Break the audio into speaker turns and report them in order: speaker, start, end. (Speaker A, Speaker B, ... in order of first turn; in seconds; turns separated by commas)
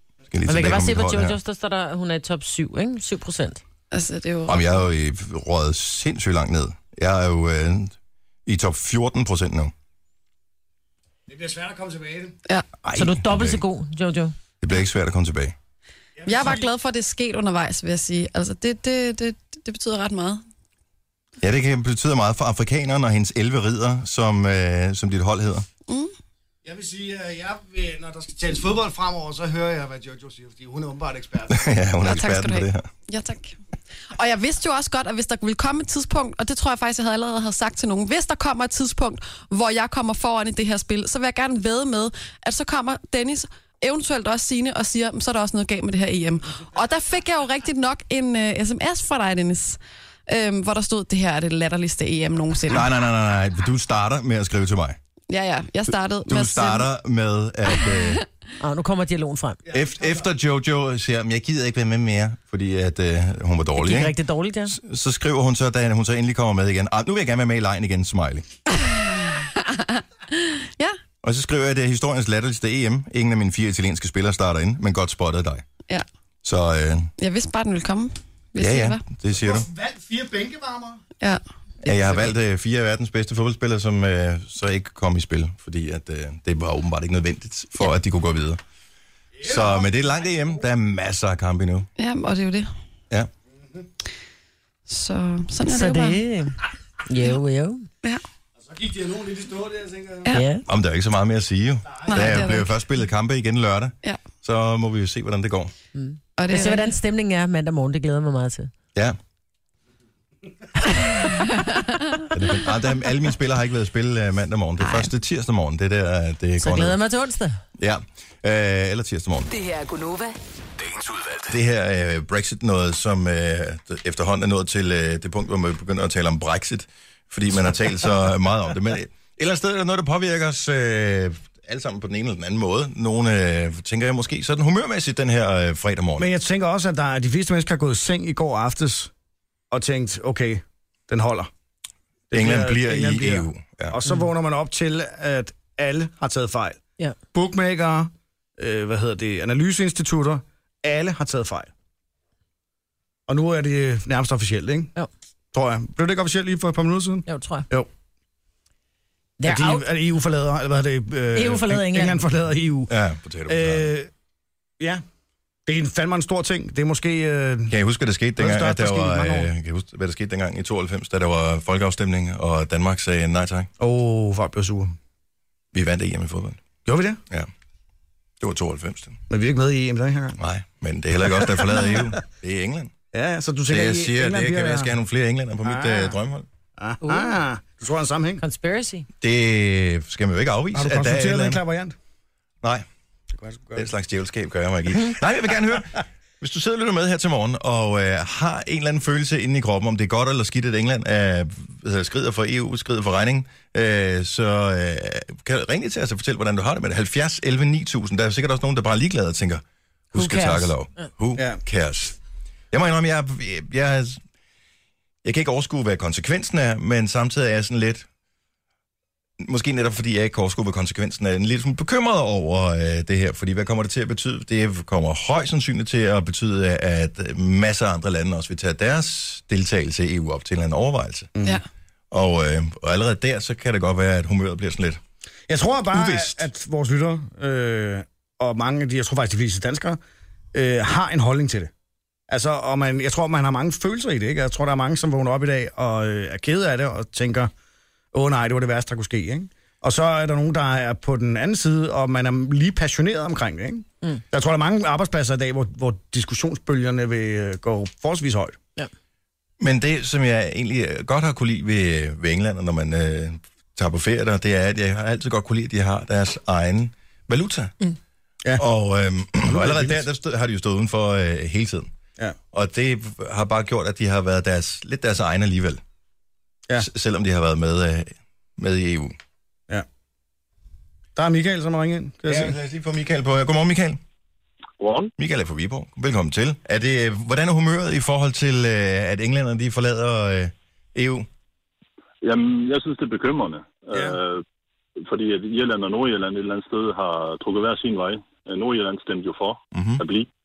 Speaker A: 0.3-1.4, Speaker B: 0.5-3.6, Speaker C: 3.9-4.7, Speaker A: 4.5-8.0, Speaker A: 8.5-9.7, Speaker D: 11.3-12.4, Speaker A: 12.8-13.6, Speaker B: 12.9-14.3, Speaker A: 14.6-15.6, Speaker D: 16.2-16.7, Speaker C: 16.3-20.4, Speaker A: 21.4-25.7, Speaker D: 26.6-31.8, Speaker A: 31.5-32.9, Speaker C: 32.0-33.6, Speaker C: 34.1-52.9, Speaker A: 52.7-55.0, Speaker C: 55.3-56.9, Speaker A: 56.3-58.2, Speaker C: 57.7-58.2, Speaker B: 58.6-59.6, Speaker D: 59.7-60.3, Speaker A: 59.7-64.2, Speaker B: 63.8-64.8, Speaker A: 64.7-68.5, Speaker C: 68.8-71.0, Speaker A: 71.2-75.7, Speaker A: 76.4-77.1, Speaker C: 77.2-79.0, Speaker A: 78.6-79.7, Speaker D: 79.3-81.0, Speaker C: 81.2-82.2, Speaker A: 81.8-88.6, Speaker D: 89.4-90.0, Speaker A: 89.4-91.9, Speaker C: 92.0-92.7, Speaker C: 94.9-96.2, Speaker B: 95.7-97.9, Speaker D: 98.6-100.3, Speaker B: 100.3-100.7, Speaker A: 100.7-105.7, Speaker D: 101.9-102.3, Speaker C: 102.1-102.8, Speaker B: 106.0-108.7, Speaker C: 106.4-107.0, Speaker C: 111.1-112.0, Speaker A: 112.3-117.0, Speaker B: 116.6-117.6, Speaker A: 117.8-119.5, Speaker E: 119.5-121.6, Speaker A: 121.5-136.3, Speaker D: 136.2-139.1, Speaker D: 139.7-141.5, Speaker D: 142.3-146.8, Speaker A: 142.3-144.0, Speaker D: 147.3-151.7, Speaker D: 153.3-154.9, Speaker D: 155.5-157.9, Speaker B: 157.3-157.7, Speaker B: 159.4-159.8, Speaker D: 159.4-162.9, Speaker B: 161.3-162.2, Speaker A: 162.9-163.9, Speaker D: 163.5-164.1, Speaker D: 165.7-167.7, Speaker A: 167.7-173.7, Speaker D: 168.4-169.5, Speaker D: 173.8-174.9, Speaker A: 175.7-176.6, Speaker D: 176.8-177.2, Speaker A: 178.4-179.2, Speaker D: 179.3-180.4, Speaker A: 180.4-182.9, Speaker D: 181.4-182.0, Speaker D: 183.1-184.9, Speaker A: 183.7-186.5, Speaker D: 185.6-186.2, Speaker D: 186.8-188.4, Speaker B: 187.0-187.3, Speaker B: 188.4-189.1, Speaker A: 189.2-191.6, Speaker D: 190.7-191.9, Speaker D: 193.3-193.9, Speaker A: 193.8-212.2, Speaker B: 210.1-210.7, Speaker D: 211.4-211.6, Speaker A: 212.7-214.2, Speaker A: 215.2-218.1, Speaker A: 219.4-231.3, Speaker D: 231.3-231.6, Speaker A: 232.1-235.0, Speaker D: 235.5-240.0, Speaker A: 235.9-236.4, Speaker D: 240.5-241.7, Speaker D: 242.3-247.5, Speaker D: 248.1-258.6, Speaker A: 259.6-267.7, Speaker A: 268.6-271.9, Speaker D: 269.4-270.1, Speaker A: 272.5-275.8, Speaker A: 276.8-279.2, Speaker D: 281.2-282.6, Speaker A: 282.3-284.0, Speaker F: 284.8-285.1, Speaker A: 285.2-291.3, Speaker F: 292.2-294.4, Speaker D: 293.9-294.2, Speaker F: 295.0-300.3, Speaker A: 299.7-300.0